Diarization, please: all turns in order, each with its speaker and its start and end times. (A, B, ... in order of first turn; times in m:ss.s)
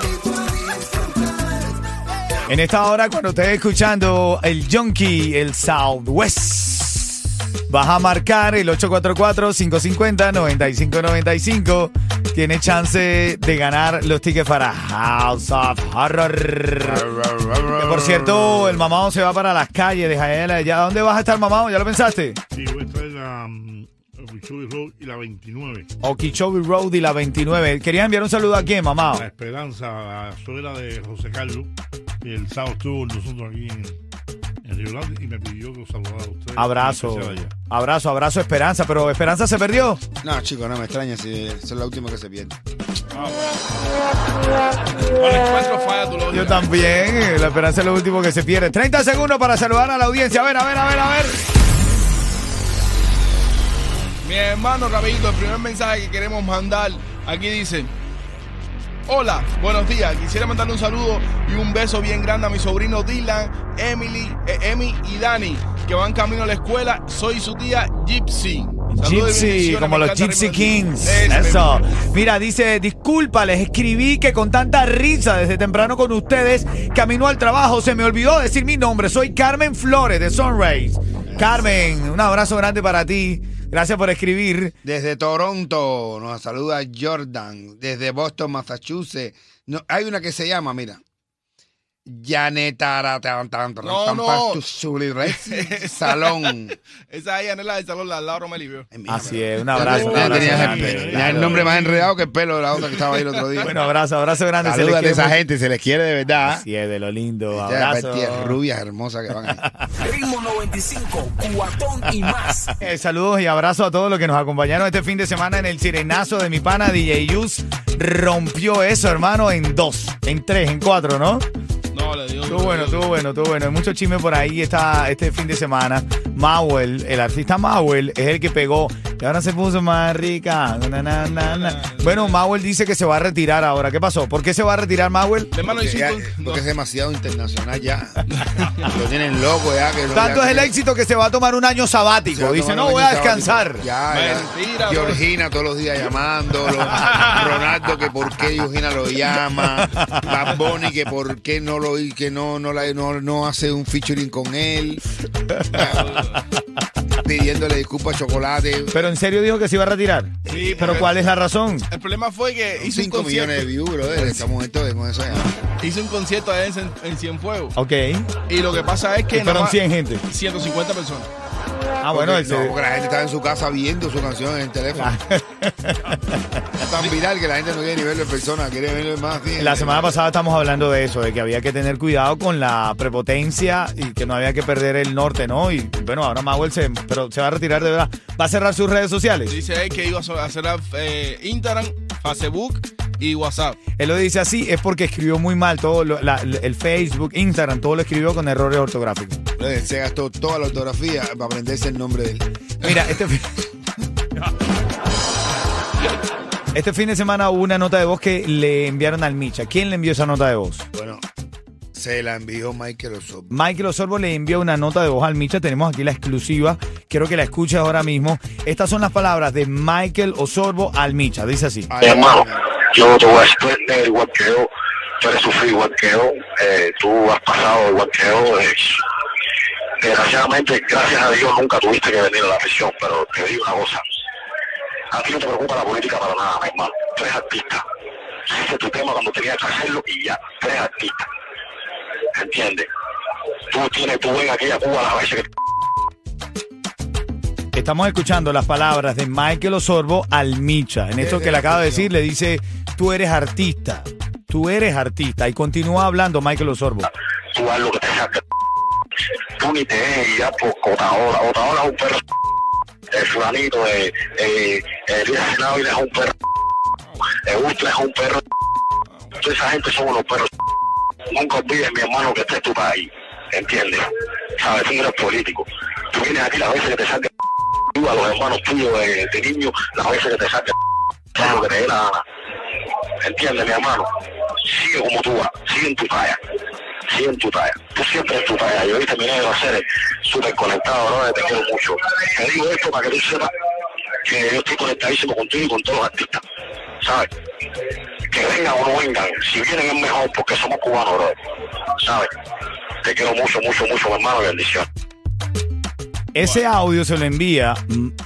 0:02.4-0:17.0 A
0:16.8-0:18.8 B
0:17.8-0:22.4 A
0:22.5-0:25.9 C
0:26.0-0:29.2 A
0:29.1-0:34.0 C
0:34.6-0:37.6 C
0:36.6-0:40.0 A
0:40.2-0:42.6 B
0:43.1-0:43.6 D
0:45.0-0:47.0 D
0:46.3-0:51.4 A
0:54.2-0:57.9 D
0:59.1-1:11.8 D
1:08.9-1:24.8 A
1:21.2-1:21.7 B
1:24.8-1:31.0 B
1:32.1-1:36.8 B
1:33.8-1:34.6 D
1:35.2-1:38.9 D
1:38.9-1:43.7 B
1:39.1-1:41.6 A
1:39.7-1:42.0 C
1:41.2-1:41.8 D
1:42.8-1:43.6 D
1:43.6-1:45.4 A
1:44.6-1:46.6 B
1:46.5-1:48.6 A
1:47.5-1:49.6 B
1:50.0-1:52.7 E
1:51.9-2:01.4 A
2:01.9-2:03.2 D
2:02.4-2:15.5 A
2:11.2-2:12.4 D
2:15.5-2:16.6 D
2:15.7-2:18.2 B
2:18.3-2:18.9 D
2:18.8-2:20.7 B
2:20.1-2:23.8 A
2:22.3-2:35.0 B
2:24.1-2:25.2 D
2:26.7-2:27.7 D
2:29.8-2:30.3 A
2:35.5-2:35.7 A
2:35.7-2:36.1 B
2:35.8-2:36.4 D
2:37.2-2:39.0 B
2:38.9-2:40.4 A
2:40.4-2:41.2 B
2:40.5-2:41.2 D
2:40.9-2:41.9 A
2:41.9-2:44.5 D
2:42.8-2:45.5 B
2:45.3-2:47.7 D
2:47.8-2:48.3 A
2:48.5-2:51.3 D
2:49.3-2:50.2 A
2:52.0-2:52.8 A
2:52.1-2:55.1 B
2:55.0-2:56.6 A
2:56.8-3:00.2 B
2:59.6-3:09.5 A
3:09.5-3:13.8 D
3:14.0-3:19.4 A
3:19.6-3:23.2 B
3:22.8-3:23.6 A
3:26.7-3:30.8 A
3:30.9-3:31.2 B
3:31.9-3:33.5 B
3:33.5-3:42.0 A
3:41.9-3:42.7 B
3:42.0-3:49.0 F
3:50.0-3:54.0 F
3:55.1-3:57.8 F
3:58.4-4:01.3 F
4:02.3-4:02.9 F
4:03.7-4:05.5 F
4:07.7-4:17.1 A
4:11.2-4:12.1 B
4:17.5-4:18.4 F
4:19.6-4:22.2 F
4:23.1-4:26.3 F
4:27.4-4:28.4 F
4:29.1-4:29.3 D
4:29.4-4:30.5 F
4:31.3-4:37.3 F
4:37.9-4:40.7 F
4:41.3-4:42.2 F
4:43.2-4:44.1 F
4:44.6-4:46.4 F
4:47.0-4:53.5 F
4:54.2-4:56.4 F
4:57.0-4:57.3 F
4:58.3-5:01.4 F
5:02.0-5:02.3 F
5:03.0-5:04.9 F
5:06.3-5:08.1 A